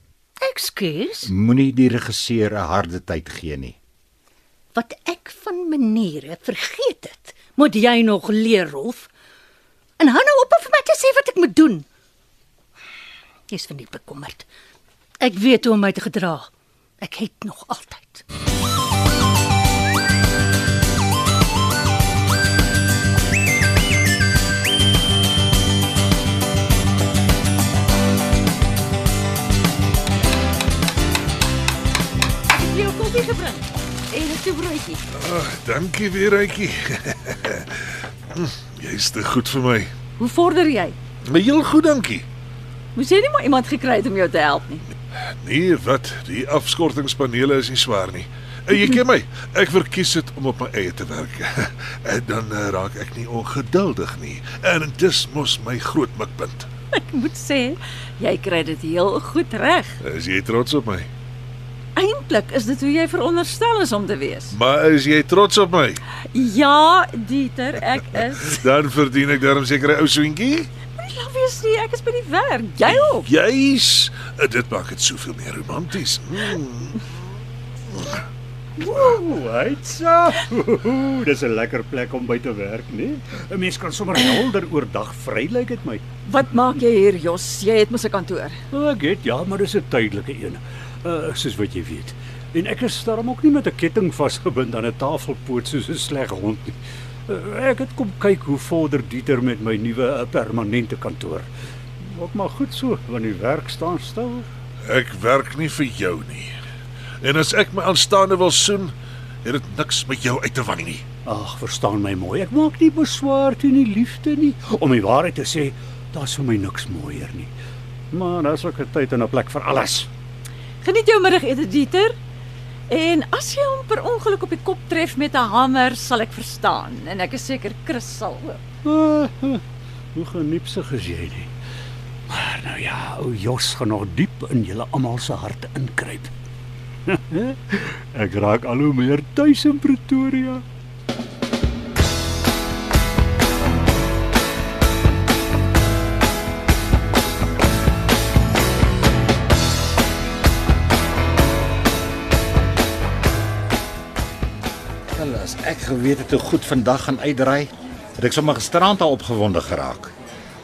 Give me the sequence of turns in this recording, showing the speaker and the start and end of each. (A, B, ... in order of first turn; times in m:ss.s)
0:00.4-0:01.3 A
0:01.2-0:03.8 B
0:04.7-0:09.1 A
0:10.0-0:11.8 A
0:13.5-0:14.5 A
0:15.2-0:16.5 A
0:17.0-0:18.2 A
0:32.5-0:35.0 C
0:35.2-0:39.9 D
0:40.2-0:41.0 C
0:41.2-0:42.2 D
0:42.9-0:44.8 C
0:45.4-0:56.7 D
0:56.9-1:00.0 C
1:00.0-1:01.1 D
1:02.0-1:04.6 C
1:04.5-1:06.0 D
1:06.3-1:08.6 C
1:08.5-1:10.7 D
1:11.0-1:13.3 C
1:12.8-1:17.0 D
1:18.8-1:26.0 E
1:26.3-1:28.6 C
1:28.7-1:36.8 E
1:37.3-1:41.5 E
1:42.0-1:44.5 E
1:44.8-1:46.5 D
1:47.2-1:48.9 D
1:49.4-1:51.0 D
1:51.2-1:57.5 E
1:58.1-2:00.1 E
2:00.8-2:02.2 C
2:02.9-2:08.6 C
2:08.8-2:09.6 E
2:10.1-2:11.5 E
2:12.3-2:16.3 E
2:17.1-2:20.6 E
2:35.1-2:40.1 B